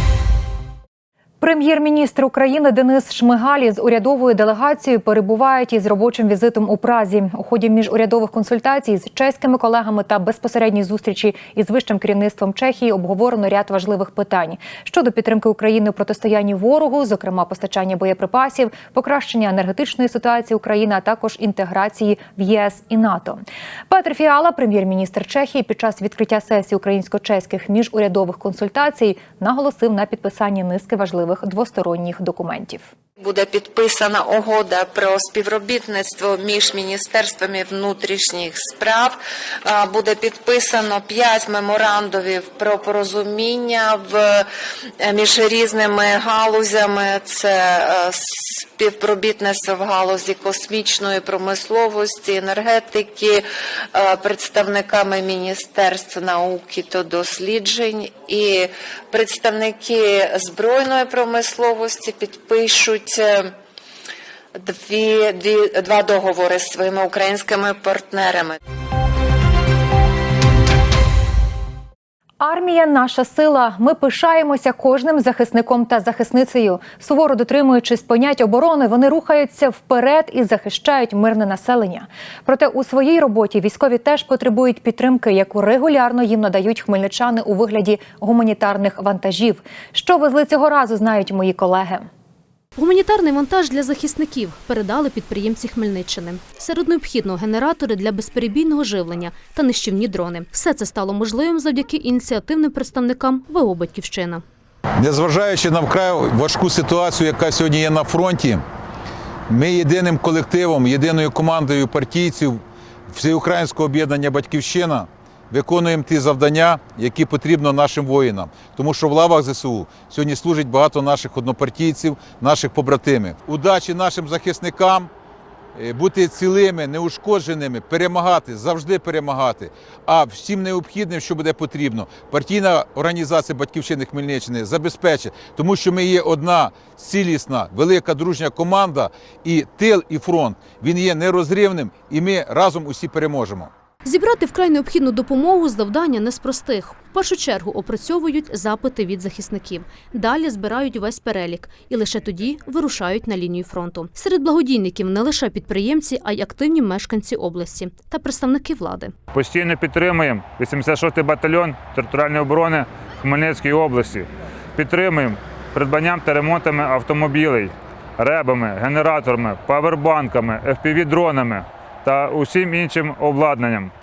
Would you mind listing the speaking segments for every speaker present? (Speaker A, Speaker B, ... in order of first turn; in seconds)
Speaker A: 1.4-32.9, 72.4-92.1
Speaker B: 33.2-44.5, 45.0-63.5, 64.6-68.6
Speaker C: 92.8-104.4, 144.1-159.1
Speaker D: 105.0-108.6, 109.5-125.1, 125.8-143.7
Speaker E: 159.3-173.9